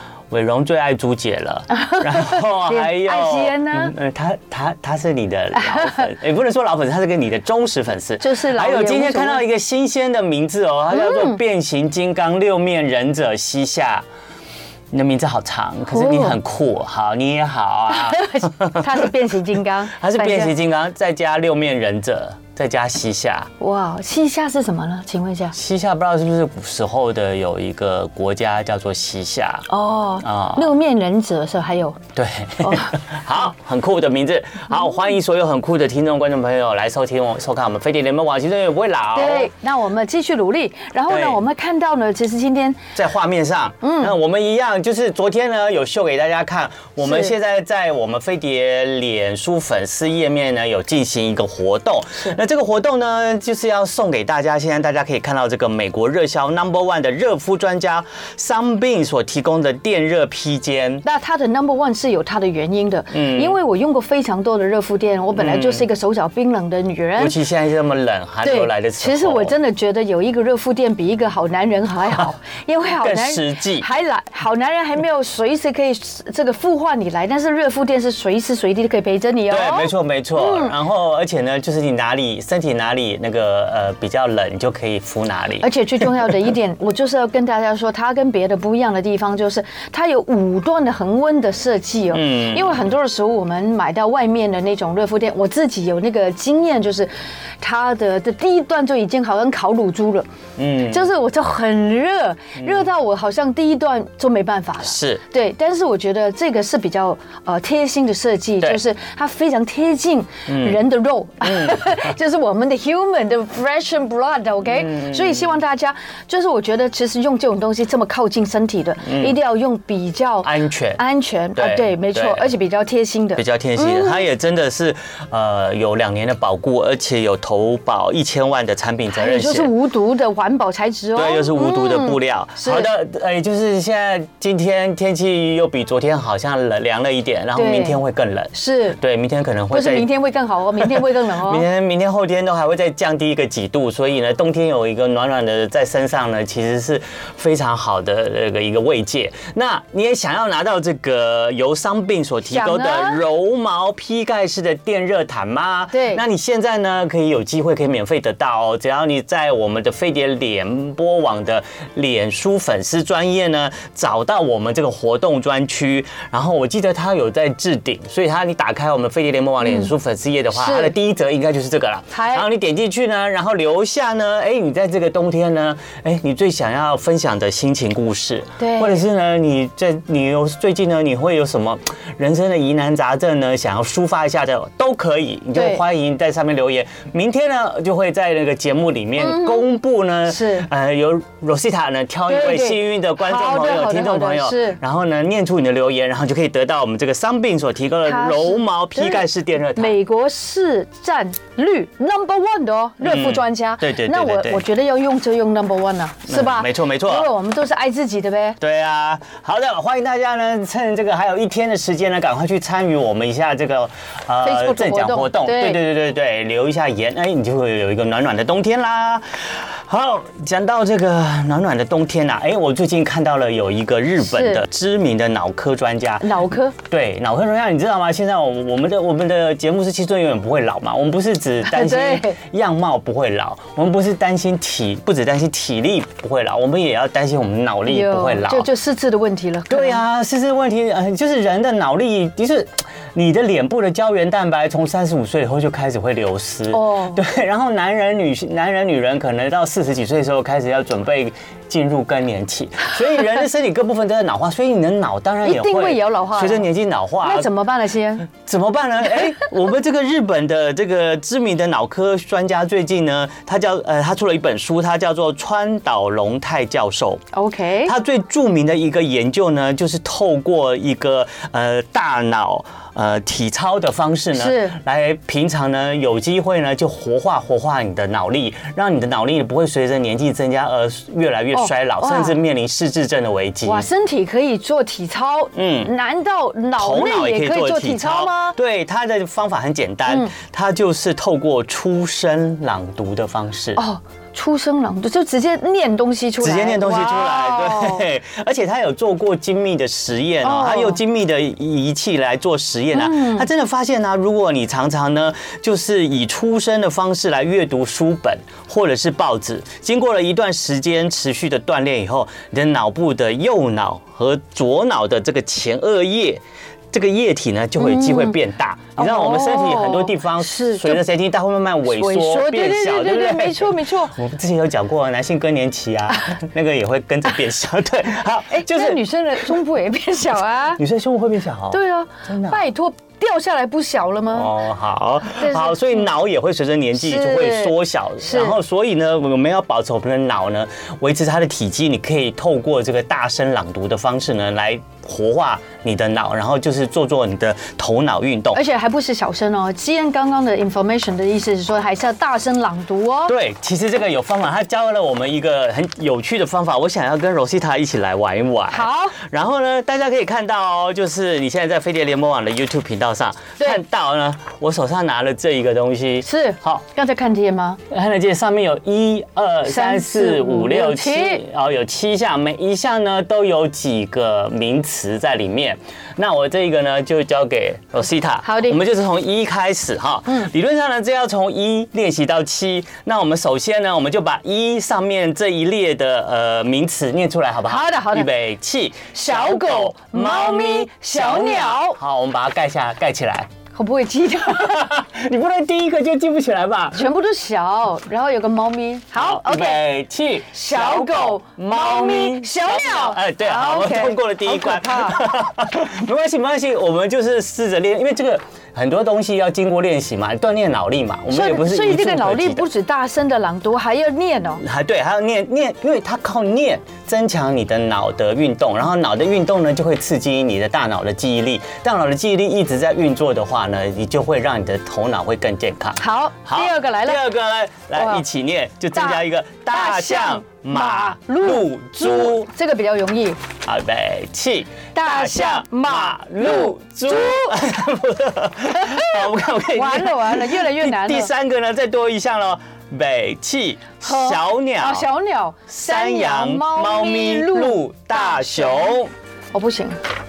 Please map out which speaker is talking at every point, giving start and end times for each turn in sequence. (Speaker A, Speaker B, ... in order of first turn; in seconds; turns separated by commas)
Speaker A: 0.3-14.1, Speaker B: 1.7-3.9, Speaker B: 5.6-6.1, Speaker B: 8.2-9.4, Speaker B: 10.9-11.4, Speaker A: 14.9-18.9, Speaker B: 15.9-16.4, Speaker B: 17.9-20.5, Speaker A: 20.0-23.5, Speaker B: 23.6-25.6, Speaker A: 25.5-29.7, Speaker B: 29.7-32.0, Speaker A: 30.2-30.7, Speaker A: 32.2-39.5, Speaker B: 32.6-33.2, Speaker B: 39.1-42.8, Speaker A: 41.1-41.4, Speaker A: 43.0-61.0, Speaker B: 43.8-44.1, Speaker B: 47.0-47.3, Speaker B: 61.0-67.4, Speaker A: 63.1-63.6, Speaker A: 65.4-65.9, Speaker A: 67.2-69.5, Speaker B: 68.4-80.7, Speaker A: 73.0-73.9, Speaker A: 79.5-85.7, Speaker B: 85.6-100.3, Speaker A: 92.1-92.8, Speaker A: 100.6-101.0, Speaker B: 100.8-124.2, Speaker A: 102.6-102.8, Speaker A: 104.8-105.2, Speaker A: 110.5-110.8, Speaker A: 111.4-112.1, Speaker A: 114.7-115.5, Speaker A: 119.0-119.4, Speaker A: 120.4-121.0, Speaker A: 121.5-122.5, Speaker A: 123.4-129.7, Speaker B: 129.1-132.9, Speaker A: 131.2-140.1, Speaker B: 137.6-138.0, Speaker B: 138.5-139.0, Speaker B: 139.7-141.7, Speaker A: 140.8-200.0, Speaker B: 152.5-153.2, Speaker B: 155.9-156.2, Speaker B: 169.6-169.9, Speaker B: 170.5-170.9, Speaker B: 172.1-172.5, Speaker B: 178.6-179.0, Speaker B: 185.5-185.8, Speaker B: 189.2-189.6, Speaker B: 190.3-190.7, Speaker B: 192.3-194.8, Speaker B: 198.1-208.6, Speaker A: 203.0-204.7, Speaker A: 206.3-207.3, Speaker A: 208.6-238.7, Speaker B: 214.4-215.8, Speaker B: 224.2-224.6, Speaker B: 226.2-226.8, Speaker B: 231.6-232.4, Speaker B: 237.9-240.0, Speaker A: 239.7-257.5, Speaker B: 246.7-247.2, Speaker B: 255.4-256.7, Speaker B: 257.2-258.3, Speaker A: 258.3-267.2, Speaker B: 267.3-267.9, Speaker A: 267.9-283.9, Speaker B: 274.3-274.8, Speaker B: 281.5-282.4, Speaker B: 283.6-288.6, Speaker A: 285.6-285.9, Speaker A: 286.8-293.8, Speaker B: 290.1-290.3, Speaker B: 293.8-298.0, Speaker A: 296.4-316.4, Speaker B: 300.4-301.0, Speaker B: 302.9-303.5, Speaker A: 316.9-329.0, Speaker B: 317.8-318.4, Speaker B: 319.0-321.0, Speaker B: 321.9-324.1, Speaker B: 328.5-330.8, Speaker A: 330.8-332.6, Speaker B: 331.7-334.5, Speaker A: 334.3-348.6, Speaker B: 335.4-336.1, Speaker B: 337.0-338.6, Speaker B: 348.5-353.3, Speaker A: 353.3-366.8, Speaker B: 358.7-359.2, Speaker B: 366.2-367.8, Speaker A: 367.9-393.5, Speaker B: 369.7-371.4, Speaker B: 378.4-378.8, Speaker B: 387.7-388.3, Speaker B: 389.1-392.0, Speaker B: 393.7-394.8, Speaker A: 394.5-397.1, Speaker B: 396.9-399.9, Speaker A: 399.1-412.7, Speaker B: 400.5-405.4, Speaker B: 411.3-414.6, Speaker A: 414.6-432.5, Speaker B: 426.0-427.2, Speaker B: 428.0-428.2, Speaker B: 428.9-433.4, Speaker A: 433.6-445.1, Speaker B: 434.9-437.6, Speaker B: 438.7-439.2, Speaker B: 439.7-441.3, Speaker B: 444.0-449.0, Speaker A: 445.7-449.1, Speaker B: 449.5-450.0